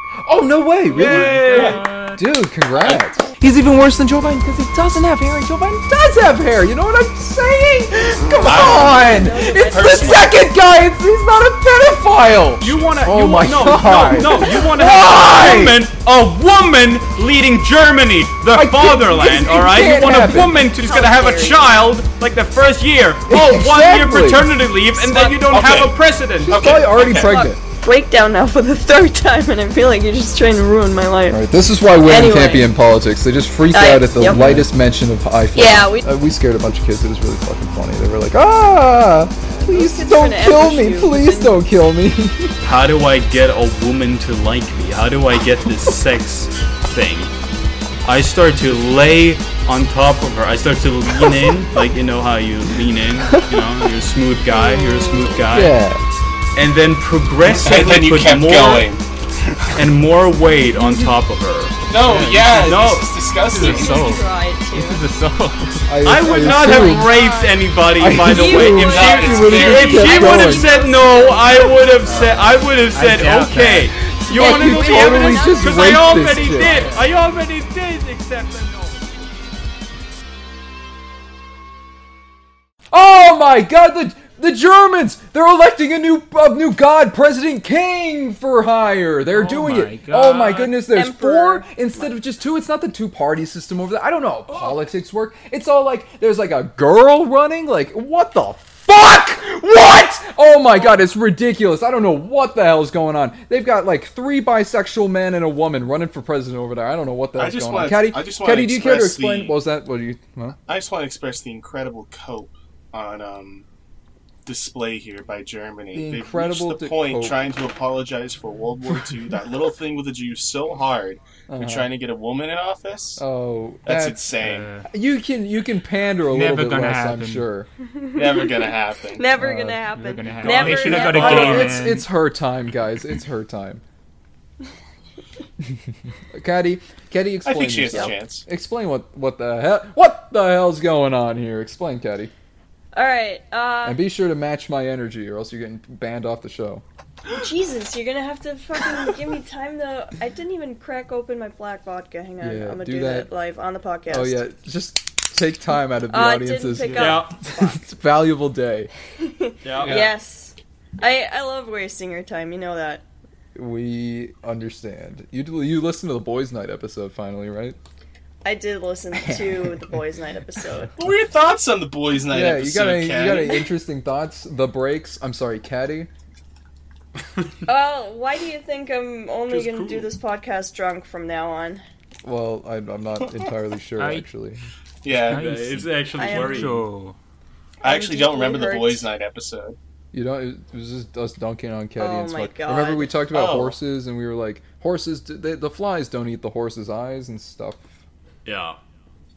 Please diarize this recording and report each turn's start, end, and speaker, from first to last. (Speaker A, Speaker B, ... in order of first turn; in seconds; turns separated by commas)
Speaker A: 0.2-15.8, Speaker B: 0.9-2.3, Speaker C: 0.9-1.8, Speaker D: 1.5-1.8, Speaker D: 2.8-3.1, Speaker D: 8.4-10.3, Speaker E: 8.8-10.2, Speaker C: 12.6-26.7, Speaker A: 18.5-20.6, Speaker E: 20.6-21.6, Speaker A: 23.3-24.5, Speaker E: 25.0-25.5, Speaker D: 25.5-27.4, Speaker A: 26.4-27.6, Speaker E: 27.0-31.4, Speaker A: 31.3-42.5, Speaker E: 32.0-32.7, Speaker E: 33.7-34.5, Speaker B: 34.4-34.7, Speaker E: 35.5-36.1, Speaker E: 39.5-41.6, Speaker C: 42.6-47.3, Speaker C: 48.0-55.8, Speaker A: 53.3-53.7, Speaker E: 54.5-55.5, Speaker A: 55.5-56.0, Speaker C: 56.5-58.9, Speaker D: 57.6-59.0, Speaker C: 59.7-61.8, Speaker A: 60.8-61.2, Speaker D: 61.9-64.1, Speaker B: 62.0-62.8, Speaker C: 62.5-63.2, Speaker E: 63.5-65.0, Speaker B: 63.5-66.0, Speaker A: 65.9-67.2, Speaker C: 66.0-79.1, Speaker E: 66.3-67.6, Speaker A: 68.0-70.7, Speaker E: 68.2-72.3, Speaker D: 68.8-70.8, Speaker B: 72.9-74.0, Speaker A: 74.1-76.9, Speaker E: 74.3-76.2, Speaker A: 82.9-110.6, Speaker B: 89.3-90.8, Speaker E: 90.9-92.2, Speaker D: 107.4-109.5, Speaker D: 110.7-113.7, Speaker D: 114.5-123.2, Speaker A: 115.9-117.4, Speaker A: 118.9-119.5, Speaker A: 121.5-121.9, Speaker A: 123.2-127.7, Speaker D: 123.8-124.7, Speaker B: 124.4-124.9, Speaker B: 126.3-127.5, Speaker E: 127.9-131.8, Speaker D: 128.1-129.3, Speaker A: 129.3-129.8, Speaker B: 129.9-132.1, Speaker C: 130.4-131.4, Speaker A: 130.5-133.8, Speaker D: 130.6-131.5, Speaker A: 136.3-142.3, Speaker D: 137.4-138.4, Speaker E: 142.9-144.0, Speaker A: 143.8-146.8, Speaker E: 147.3-154.4, Speaker A: 152.4-153.3, Speaker A: 154.1-158.9, Speaker E: 156.1-157.7, Speaker B: 156.8-157.2, Speaker C: 156.9-157.4, Speaker E: 159.2-163.0, Speaker C: 159.6-160.0, Speaker A: 159.8-160.2, Speaker A: 163.6-167.8, Speaker E: 168.4-170.9, Speaker A: 169.1-170.0, Speaker D: 171.0-173.7, Speaker A: 172.3-176.1, Speaker E: 177.7-181.8, Speaker C: 179.5-180.1, Speaker A: 182.2-184.6, Speaker B: 184.0-184.3, Speaker D: 185.0-185.5, Speaker B: 185.2-187.2, Speaker C: 185.3-186.8, Speaker E: 186.2-186.8, Speaker E: 187.8-189.1, Speaker D: 187.8-189.8, Speaker A: 190.1-197.8, Speaker E: 192.0-193.2, Speaker D: 193.3-193.8, Speaker C: 198.4-198.8